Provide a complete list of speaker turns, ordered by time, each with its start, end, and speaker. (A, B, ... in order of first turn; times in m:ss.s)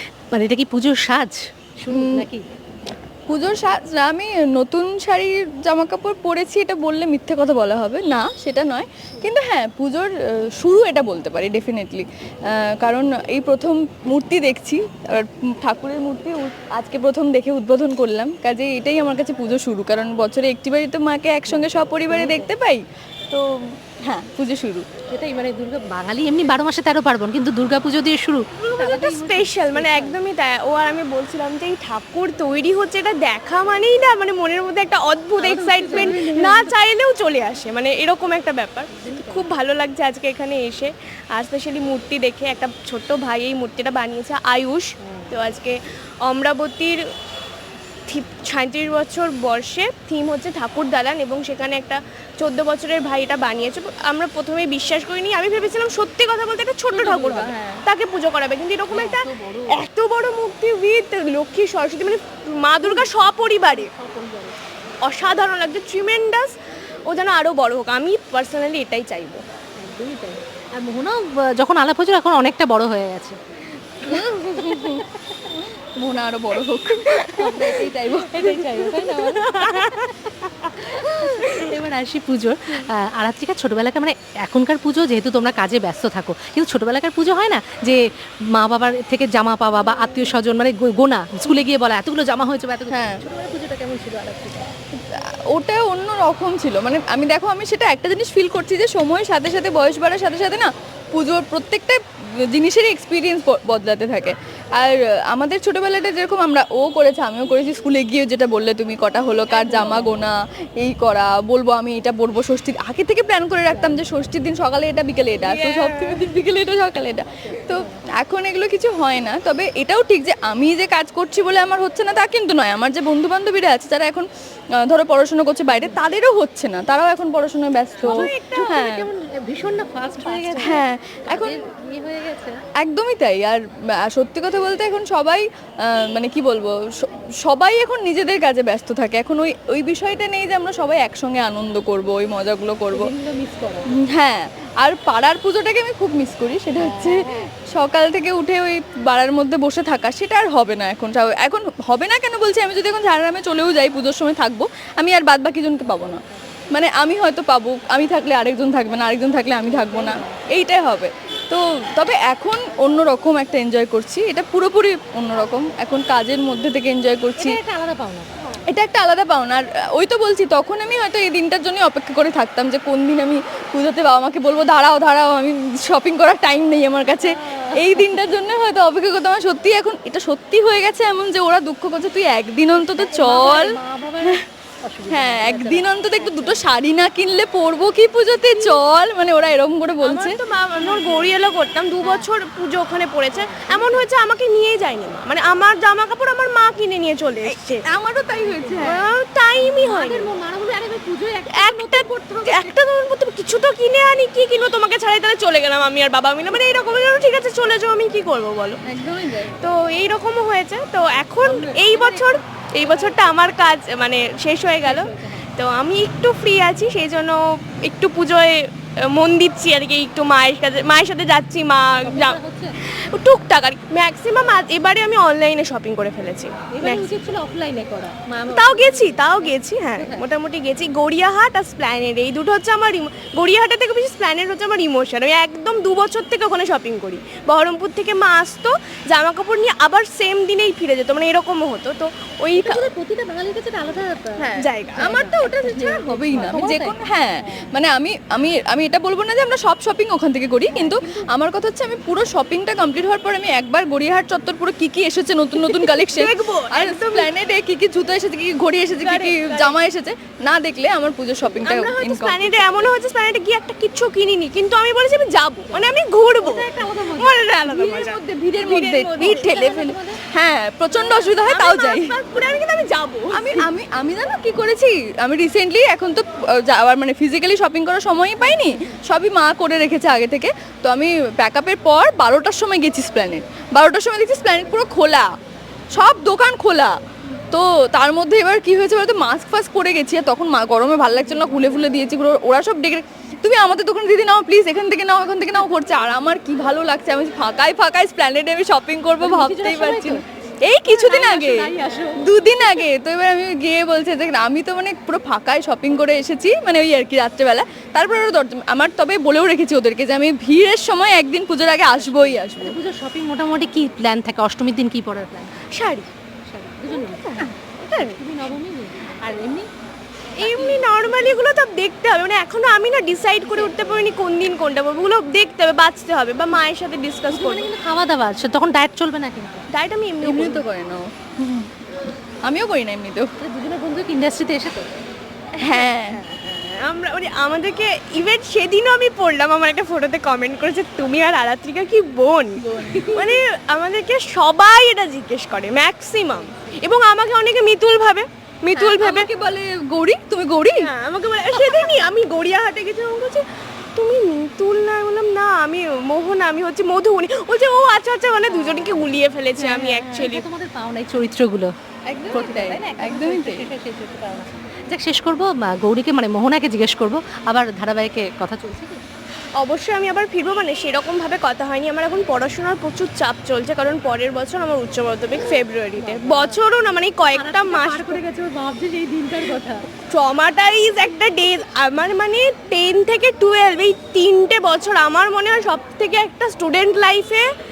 0:00.3-0:02.4 A
0:01.9-0:02.3 B
0:03.3-0:23.5 B
0:21.5-0:22.5 A
0:24.0-0:24.8 B
0:25.1-0:30.2 A
0:28.6-0:47.0 C
0:35.4-0:36.7 A
0:38.9-0:39.5 A
0:48.1-1:03.9 C
0:56.9-0:57.7 A
0:58.9-0:59.8 A
1:02.8-1:04.6 A
1:05.0-1:06.6 C
1:07.1-1:09.4 C
1:09.8-1:13.4 A
1:14.1-1:15.0 B
1:14.1-1:15.0 A
1:15.6-1:18.8 B
1:17.4-1:20.1 A
1:18.8-1:20.0 C
1:20.7-1:28.0 A
1:28.5-1:34.7 A
1:32.9-1:33.2 B
1:35.0-2:04.3 B
1:49.7-1:50.2 A
1:53.7-1:54.0 A
1:55.4-1:56.2 C
2:04.8-2:09.1 B
2:08.0-2:12.6 A
2:08.1-2:08.4 C
2:10.2-2:10.8 C
2:10.6-2:11.6 B
2:12.8-2:23.1 B
2:22.9-2:23.9 A
2:23.9-2:36.2 B
2:26.7-2:27.5 A
2:36.7-2:47.6 B
2:39.7-2:40.4 A
2:47.4-2:48.3 A
2:48.7-3:04.4 B
2:57.2-2:58.1 A
3:02.8-3:06.7 A
3:05.1-3:10.4 B
3:08.5-3:08.8 A
3:10.0-3:17.8 C
3:10.8-3:11.3 A
3:12.0-3:12.3 A
3:13.3-3:14.1 A
3:17.8-3:19.0 B
3:18.4-3:18.8 A
3:18.8-3:20.3 C
3:19.6-3:22.7 A
3:21.5-3:28.8 C
3:28.8-3:29.6 B
3:29.6-3:47.1 C
3:31.4-3:33.2 A
3:34.8-3:35.4 A
3:42.0-3:42.8 A
3:46.7-3:50.2 A
3:48.5-4:02.8 C
4:02.6-4:07.7 A
4:04.4-4:05.2 C
4:05.0-4:22.8 B
4:10.7-4:11.3 A
4:15.6-4:17.3 C
4:19.0-4:19.8 C
4:21.6-4:29.6 C
4:25.7-4:27.4 A
4:27.6-4:32.2 B
4:29.2-4:30.2 A
4:30.9-4:33.6 C
4:33.4-4:45.3 B
4:45.9-4:47.0 B
4:47.5-5:12.8 B
4:59.2-5:00.2 A
5:00.9-5:02.2 A
5:11.9-5:15.5 A
5:15.7-5:16.1 C
5:16.4-5:19.7 A
5:16.9-5:18.2 C
5:20.4-5:21.4 A
5:20.4-5:27.7 C
5:23.4-5:24.1 A
5:27.3-5:29.7 A
5:29.7-5:30.6 C
5:30.2-5:31.7 B
5:32.4-5:33.3 B
5:33.4-5:34.9 A
5:35.6-5:49.3 C
5:35.6-5:36.2 B
5:42.8-5:43.4 A
5:48.8-5:50.9 B
5:50.8-5:53.4 C
5:54.0-6:00.4 C
5:58.5-6:01.7 A
6:02.1-6:03.7 B
6:02.3-6:09.0 A
6:09.6-6:18.2 C
6:16.0-6:16.6 A
6:17.3-6:19.8 A
6:20.1-6:27.4 C